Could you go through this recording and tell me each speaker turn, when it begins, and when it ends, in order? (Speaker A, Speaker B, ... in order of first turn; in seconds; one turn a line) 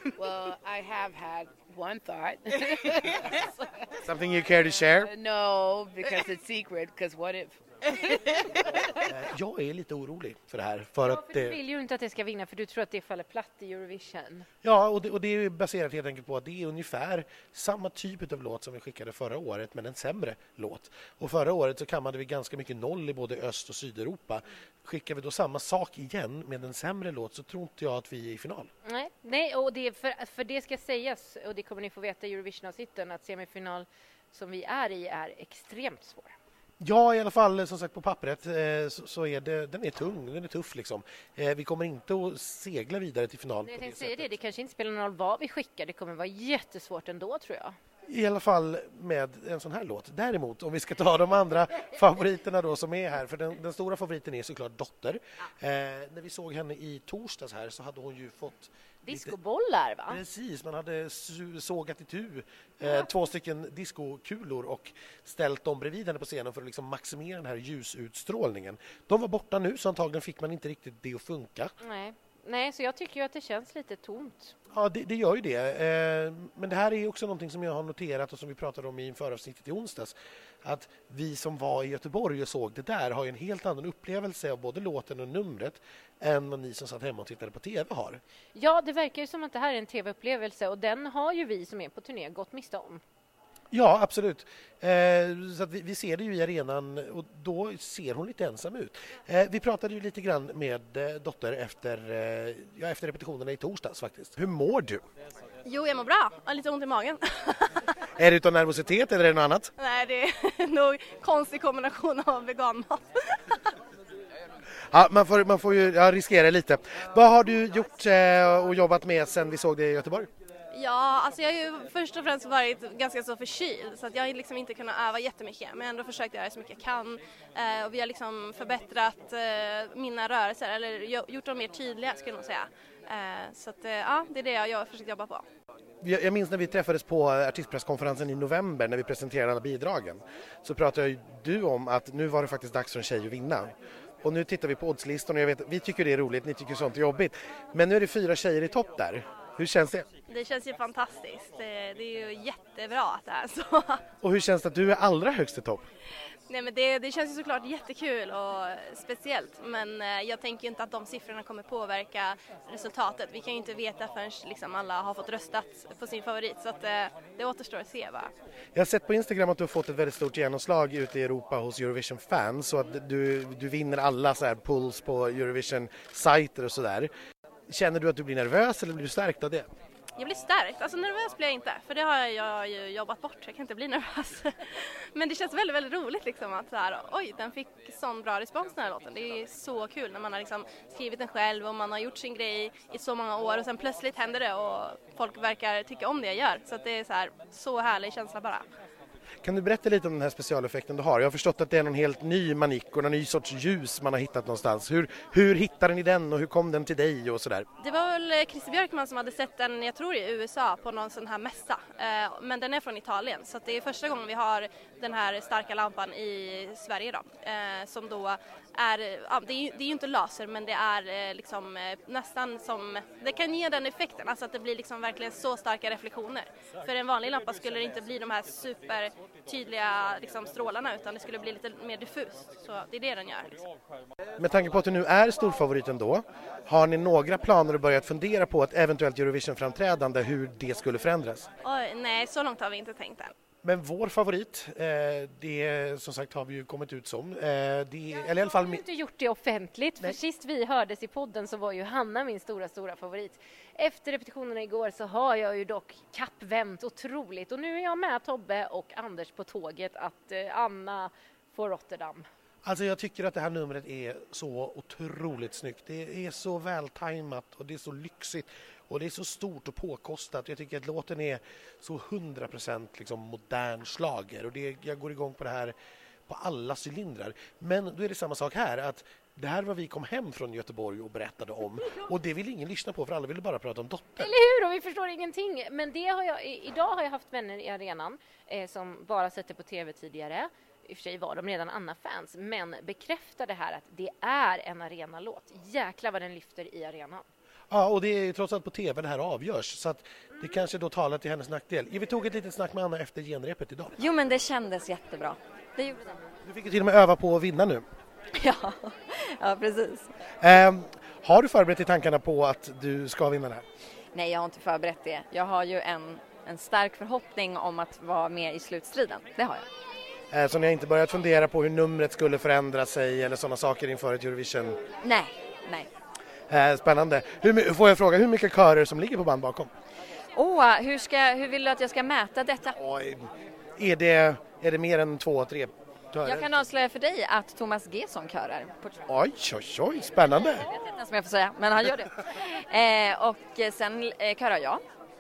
Speaker A: 0.2-3.9
Speaker B: 4.0-5.1
Speaker A: 4.8-8.4
Speaker B: 9.1-11.6
Speaker C: 11.0-14.5
Speaker B: 14.6-28.7
Speaker C: 28.9-36.3
Speaker B: 36.8-44.4
Speaker C: 43.6-47.8
Speaker B: 48.1-59.4
Speaker C: 59.0-60.2
Speaker B: 60.1-71.7
Speaker C: 71.8-74.5
Speaker B: 74.7-88.2
Speaker C: 88.5-93.0
Speaker B: 93.7-105.0
Speaker D: 105.7-108.0
Speaker B: 108.2-109.7
Speaker D: 109.8-113.7
Speaker B: 114.9-120.3
Speaker D: 120.7-135.4
Speaker B: 136.0-150.1
Speaker D: 150.3-154.0
Speaker B: 154.2-155.8
Speaker D: 156.5-168.3
Speaker B: 168.8-177.1
Speaker B: 177.7-179.7
Speaker D: 180.2-198.7
Speaker B: 199.4-207.7
Speaker D: 207.8-233.6
Speaker B: 234.4-241.5
Speaker D: 241.6-243.3
Speaker B: 243.6-248.8
Speaker C: 248.2-262.3
Speaker B: 262.6-275.8
Speaker B: 276.3-284.3
Speaker C: 284.2-297.2
Speaker B: 297.7-304.1
Speaker E: 304.0-306.2
Speaker B: 306.4-307.9
Speaker E: 308.4-310.1
Speaker B: 310.4-313.6
Speaker E: 314.1-319.7
Speaker B: 320.3-324.8
Speaker E: 325.0-325.9
Speaker B: 326.5-329.7
Speaker E: 330.4-332.8
Speaker B: 332.8-336.7
Speaker E: 336.2-339.0
Speaker B: 339.1-340.7
Speaker E: 340.6-344.8